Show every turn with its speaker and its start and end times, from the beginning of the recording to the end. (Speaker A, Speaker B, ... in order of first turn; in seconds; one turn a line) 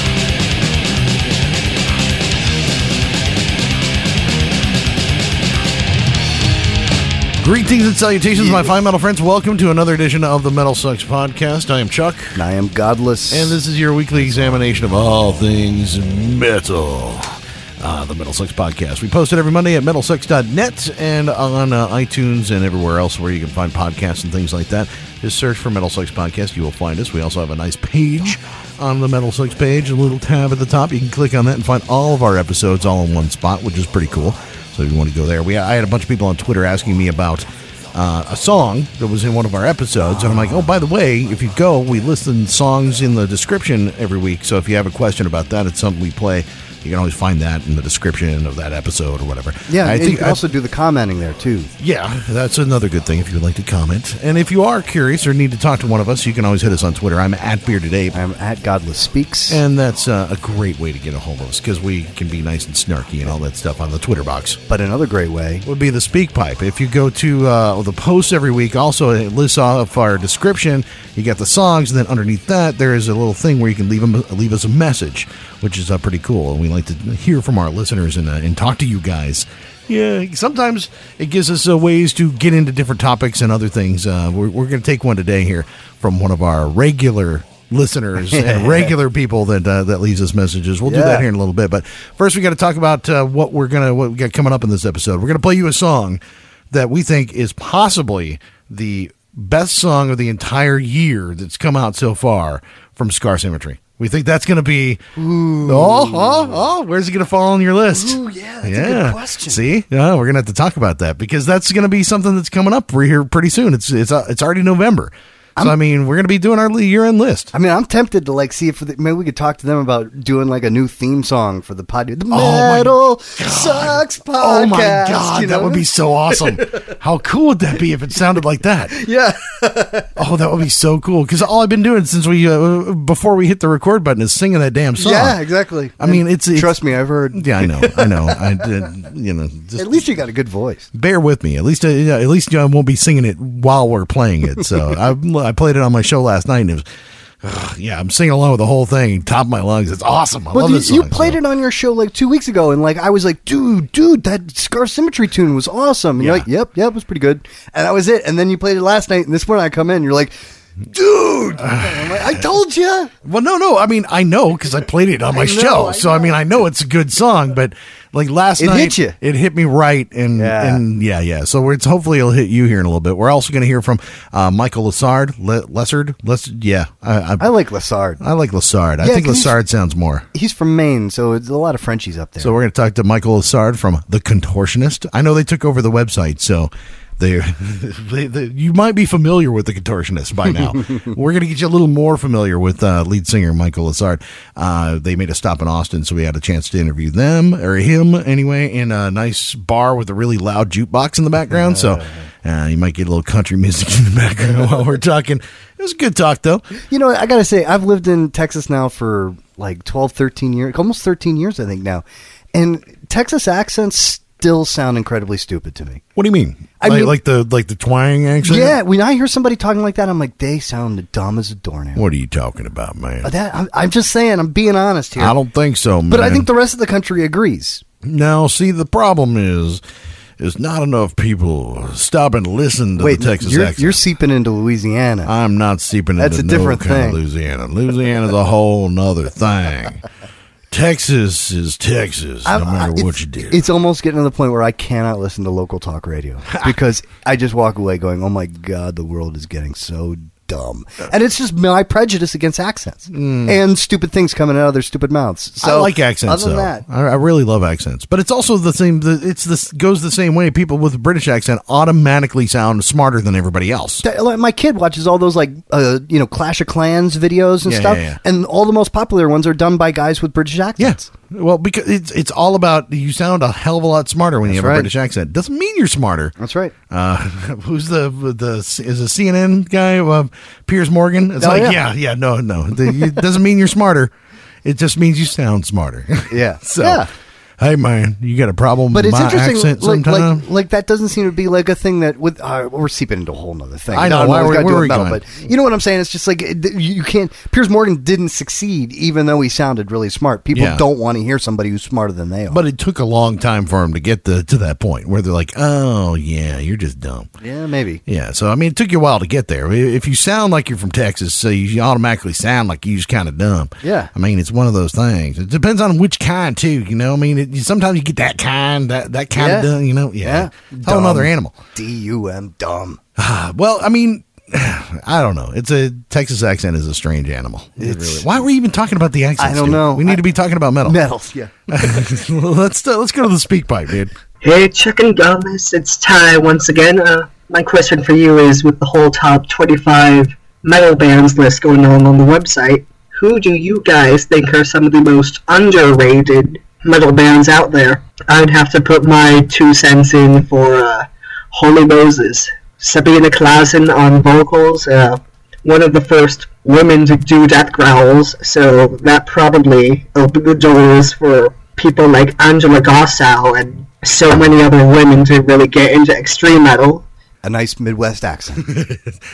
Speaker A: 7.4-12.4
Speaker B: 8.3-8.7
Speaker B: 12.3-13.6
Speaker A: 13.3-50.4
Speaker B: 49.7-51.7
Speaker A: 51.8-58.2
Speaker B: 58.1-59.6
Speaker A: 59.5-64.6
Speaker B: 64.7-65.7
Speaker A: 65.7-105.0
Speaker B: 88.3-88.9
Speaker B: 90.8-91.2
Speaker B: 105.2-106.6
Speaker A: 105.7-117.5
Speaker B: 107.9-109.6
Speaker B: 117.5-125.8
Speaker A: 122.3-128.9
Speaker B: 126.3-126.8
Speaker B: 128.9-130.1
Speaker A: 130.2-135.4
Speaker B: 135.0-138.6
Speaker A: 136.0-136.8
Speaker A: 137.3-140.1
Speaker B: 139.8-140.9
Speaker A: 140.9-146.8
Speaker A: 147.4-151.4
Speaker B: 150.5-160.4
Speaker A: 156.2-156.5
Speaker B: 160.9-163.1
Speaker A: 161.6-162.3
Speaker A: 163.2-177.5
Speaker B: 165.3-166.4
Speaker B: 168.6-169.2
Speaker B: 170.4-170.8
Speaker B: 177.4-178.2
Speaker A: 178.2-180.3
Speaker B: 179.0-179.6
Speaker B: 180.3-182.5
Speaker A: 182.4-206.7
Speaker B: 201.5-202.3
Speaker B: 206.8-216.0
Speaker A: 216.2-218.8
Speaker B: 216.8-217.2
Speaker B: 218.4-222.1
Speaker A: 221.9-223.3
Speaker B: 223.2-225.4
Speaker A: 225.2-226.5
Speaker B: 226.1-227.8
Speaker A: 228.0-229.8
Speaker A: 230.4-234.0
Speaker B: 233.0-235.3
Speaker A: 235.2-240.1
Speaker B: 236.2-237.2
Speaker A: 240.7-243.6
Speaker B: 242.4-256.8
Speaker A: 253.1-253.6
Speaker A: 255.6-264.0
Speaker B: 264.0-271.1
Speaker A: 267.6-268.2
Speaker A: 270.8-276.4
Speaker B: 274.4-274.9
Speaker B: 276.4-276.7
Speaker A: 276.9-284.1
Speaker B: 281.4-281.8
Speaker B: 282.9-283.2
Speaker A: 284.6-287.1
Speaker B: 286.3-287.1
Speaker A: 287.6-290.4
Speaker B: 288.9-302.6
Speaker A: 293.9-295.3
Speaker A: 300.5-300.8
Speaker A: 302.5-307.3
Speaker B: 307.4-308.0
Speaker A: 308.1-321.6
Speaker B: 313.8-314.1
Speaker B: 319.3-319.7
Speaker B: 320.2-323.0
Speaker A: 323.2-331.0
Speaker B: 327.8-328.4
Speaker B: 329.4-330.2
Speaker B: 330.9-331.5
Speaker A: 331.7-334.1
Speaker C: 334.4-367.1
Speaker B: 367.4-368.7
Speaker A: 368.7-369.1